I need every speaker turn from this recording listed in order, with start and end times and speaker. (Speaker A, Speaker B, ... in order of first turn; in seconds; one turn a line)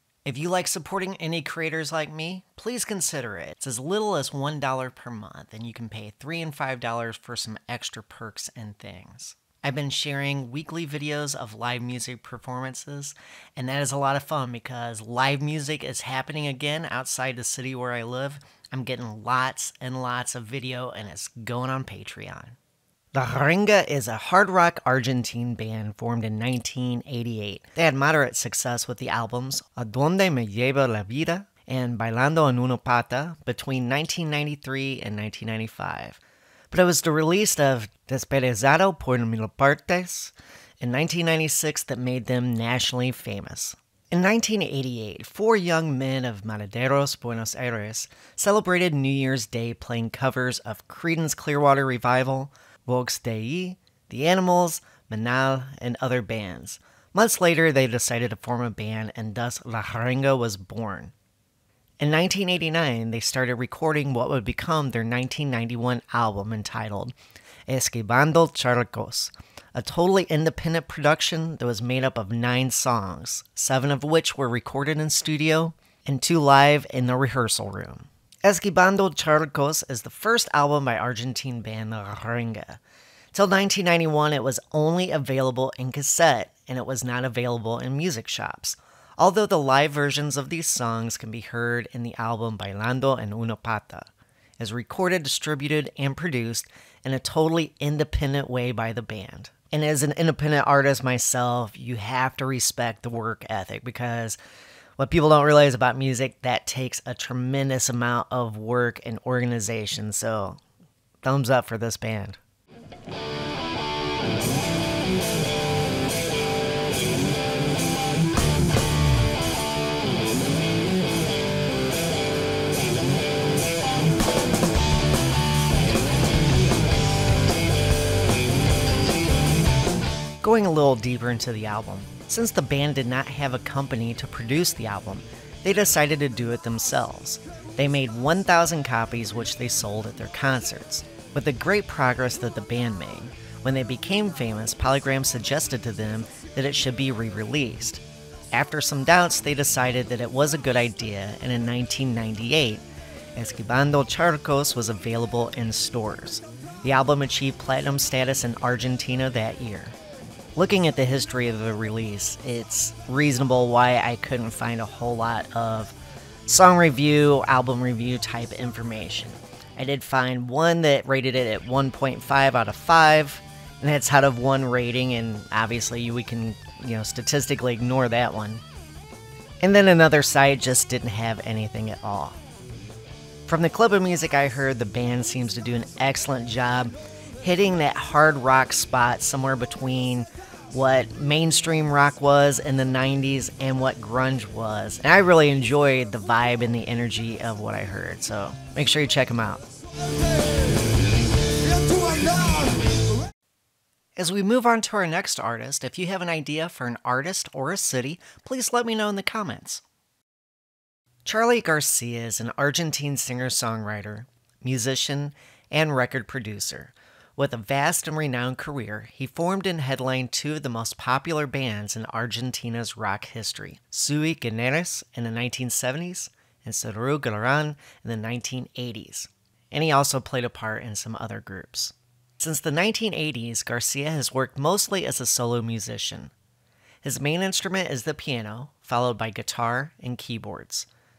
Speaker A: 0.2-22.6
Speaker A: 23.1-36.2
Speaker A: 36.7-61.1
Speaker A: 62.0-67.1
Speaker A: 67.7-82.8
Speaker A: 83.3-104.4
Speaker A: 105.0-110.6
Speaker A: 111.2-112.4
Speaker A: 130.4-152.8
Speaker A: 153.4-160.0
Speaker A: 160.6-166.0
Speaker A: 166.5-178.6
Speaker A: 179.6-182.4
Speaker A: 183.5-199.7
Speaker A: 204.2-209.8
Speaker A: 211.2-236.3
Speaker A: 237.0-240.9